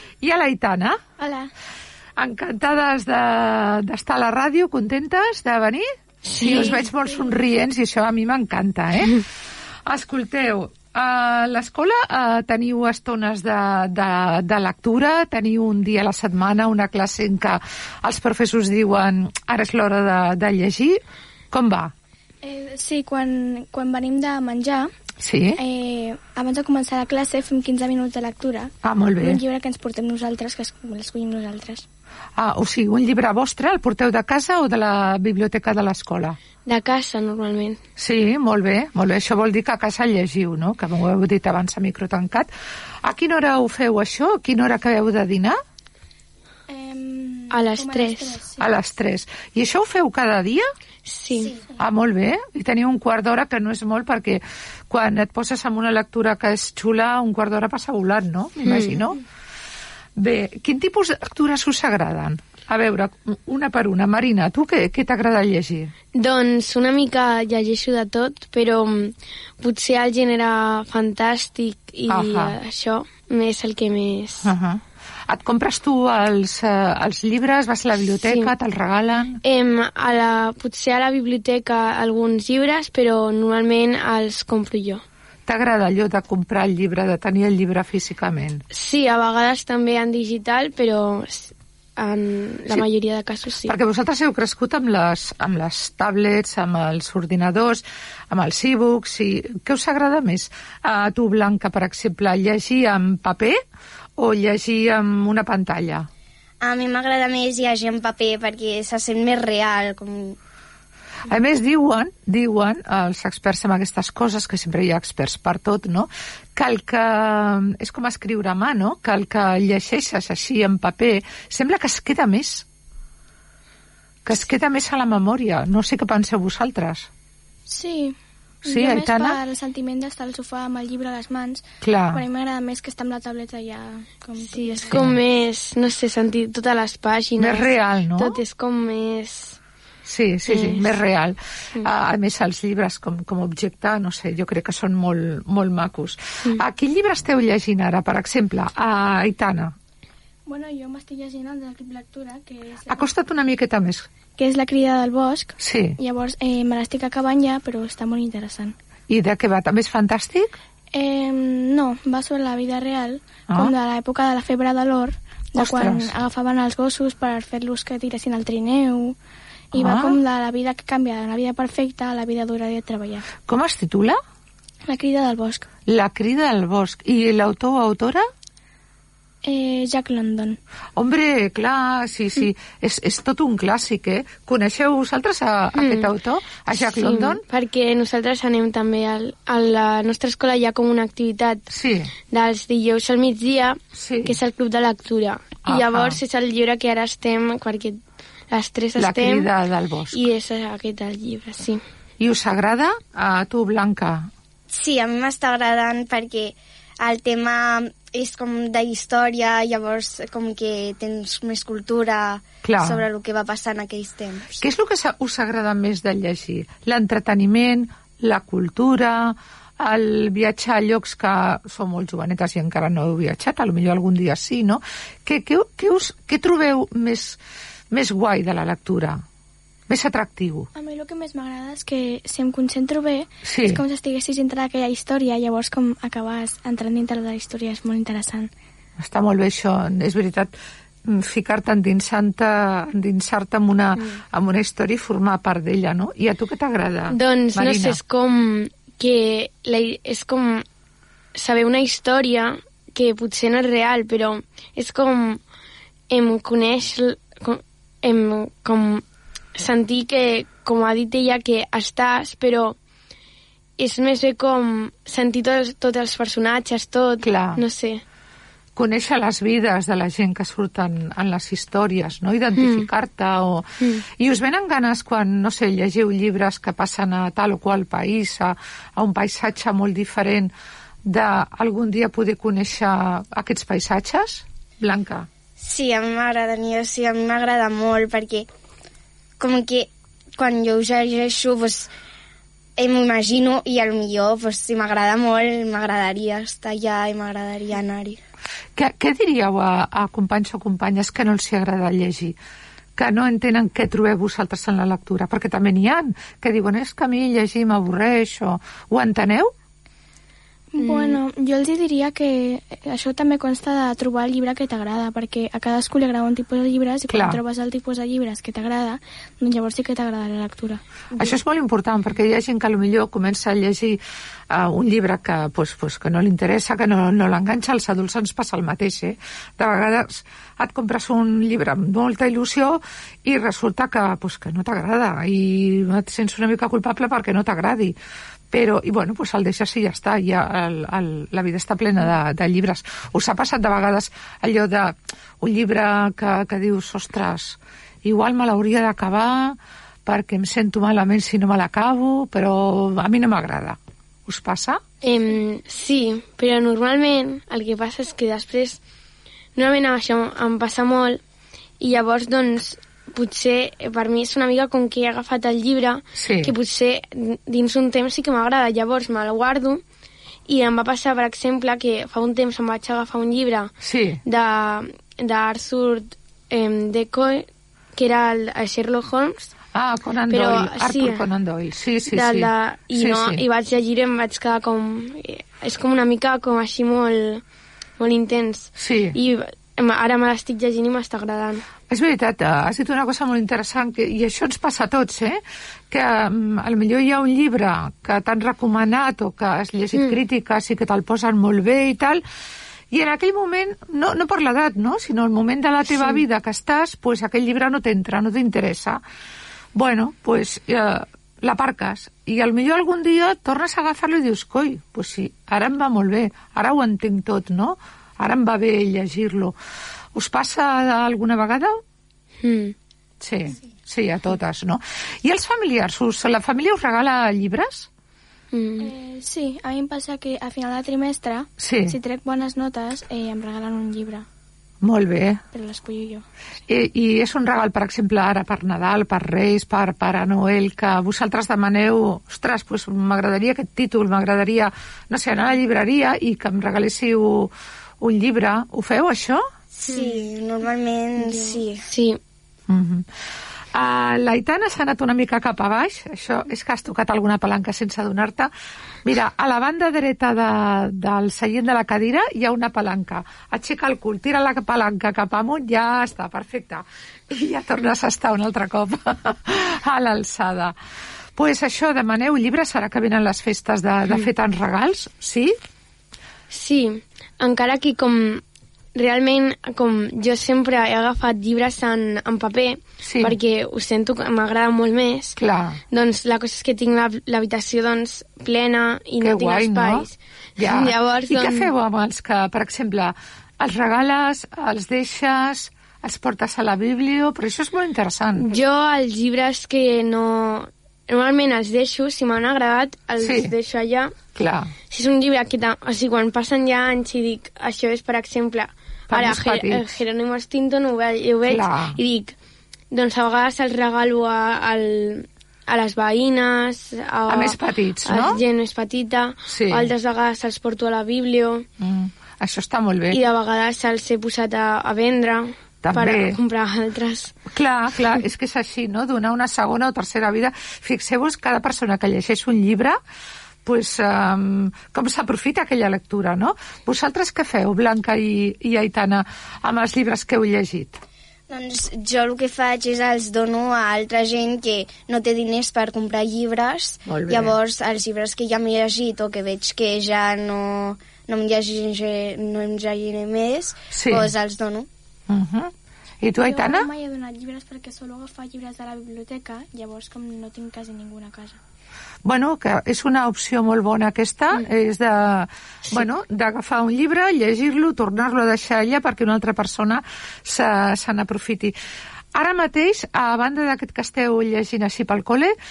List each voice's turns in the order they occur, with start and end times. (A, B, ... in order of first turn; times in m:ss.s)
0:00.2-0:01.0 A
0:01.2-0:01.5 B
0:02.2-0:05.9 A
0:06.3-0:06.8 C
0:06.4-0:07.4 B
0:06.4-0:09.2 A
0:09.9-0:21.0 A
0:21.5-0:21.9 A
0:22.4-0:24.9 B
0:25.2-0:25.6 A
0:25.6-0:31.8 B
0:28.8-0:29.4 A
0:32.4-0:36.4 A
0:36.7-0:37.8 C
0:38.0-0:42.5 A
0:43.0-0:45.6 A
0:46.7-0:48.7 B
0:47.5-0:48.4 C
0:48.6-0:50.7 A
0:51.1-0:51.6 C
0:51.8-0:59.2 A
0:58.6-0:59.1 C
1:00.2-1:05.9 A
1:06.1-1:14.5 C
1:12.1-1:12.6 A
1:14.4-1:19.4 A
1:18.2-1:18.5 C
1:19.4-1:25.0 C
1:25.5-1:28.6 A
1:28.7-1:33.7 C
1:33.6-1:43.6 A
1:44.2-1:46.1 A
1:46.6-1:50.4 D
1:51.3-2:02.6 A
2:04.2-2:07.1 A
2:07.7-2:15.0 B
2:08.7-2:09.4 A
2:11.8-2:12.2 A
2:14.4-2:19.6 C
2:14.9-2:15.2 A
2:17.4-2:18.4 A
2:20.0-2:29.8 A
2:20.5-2:20.9 C
2:30.5-2:33.1 B
2:32.9-2:34.1 A
2:34.4-2:38.8 B
2:35.6-2:36.0 A
2:39.1-2:40.6 A
2:40.9-2:49.2 B
2:45.6-2:46.1 A
2:49.7-2:53.3 B
2:49.8-2:50.2 A
2:53.5-2:54.2 A
2:54.9-2:55.7 B
2:55.9-2:58.2 A
2:59.4-3:00.6 B
3:01.0-3:07.4 A
3:05.8-3:06.1 C
3:06.8-3:11.7 C
3:11.7-3:12.1 A
3:12.3-3:18.0 C
3:13.9-3:14.3 A
3:15.6-3:16.2 A
3:18.5-3:19.5 C
3:19.0-3:20.2 A
3:20.1-3:21.8 C
3:22.2-3:24.3 A
3:24.7-3:34.6 D
3:32.6-3:33.0 A
3:34.6-3:47.4 A
3:47.9-3:49.2 A
3:49.9-3:50.7 A
3:50.7-3:58.5 B
3:53.4-3:53.8 A
3:59.0-4:00.5 A
4:01.1-4:08.0 A
4:07.1-4:10.6 C
4:11.3-4:15.4 C
4:16.1-4:19.0 C
4:19.5-4:22.8 C
4:23.8-4:28.0 C
4:27.2-4:27.6 A
4:28.8-4:40.5 A
4:32.6-4:32.9 C
4:41.1-4:45.3 A
4:45.6-4:48.5 D
4:49.4-4:51.9 D
4:52.8-4:58.2 D
4:58.8-5:02.4 A
5:03.0-5:09.5 A
5:10.7-5:20.8 B
5:10.8-5:11.2 C
5:17.1-5:17.4 A
5:21.2-5:24.0 A
5:24.5-5:38.0 A
5:38.5-5:54.8 A
5:55.0-5:58.8 C
5:59.6-6:01.2 C
6:01.8-6:09.8 C
6:06.2-6:06.5 A
6:10.5-6:13.7 C
6:13.8-6:14.2 A
6:14.2-6:19.5 C
6:19.7-6:23.4 A
6:20.3-6:21.2 C
6:22.1-6:27.4 C
6:28.0-6:31.6 C
6:28.8-6:29.1 A
6:31.9-6:35.4 A
6:35.9-6:42.2 A
6:42.9-6:49.0 A
6:49.8-6:59.5 A
7:00.1-7:01.8 A
7:02.4-7:02.7 C
7:03.2-7:07.9 A
7:08.5-7:08.9 C
7:08.8-7:14.2 B
7:11.6-7:12.0 A
7:14.8-7:15.4 A
7:15.5-7:16.2 B
7:16.7-7:29.4 A
7:29.8-7:31.8 D
7:29.9-7:30.2 C
7:31.2-7:32.2 C
7:32.7-7:33.0 A
7:33.8-7:38.5 A
7:39.0-7:50.8 A
7:51.4-7:55.6 A
7:56.5-7:58.4 C
7:59.0-8:05.4 C
8:03.0-8:03.4 A
8:05.4-8:05.8 A
8:05.9-8:11.7 C
8:09.2-8:10.1 A
8:10.6-8:18.5 A
8:18.4-8:24.2 C
8:23.2-8:23.5 A
8:24.4-8:24.7 A
8:24.9-8:32.3 C
8:29.1-8:29.9 A
8:31.5-8:32.0 A
8:32.9-8:41.7 C
8:37.3-8:38.4 A
8:39.5-8:39.9 A
8:41.8-8:43.2 A
8:43.1-8:47.4 C
8:45.8-8:46.4 A
8:47.5-8:53.0 A
8:53.6-9:01.0 A
9:01.5-9:14.9 D
9:07.1-9:07.6 A
9:13.9-9:14.3 A
9:15.3-9:16.9 A
9:16.4-9:21.6 B
9:22.2-9:31.8 A
9:32.4-9:35.5 A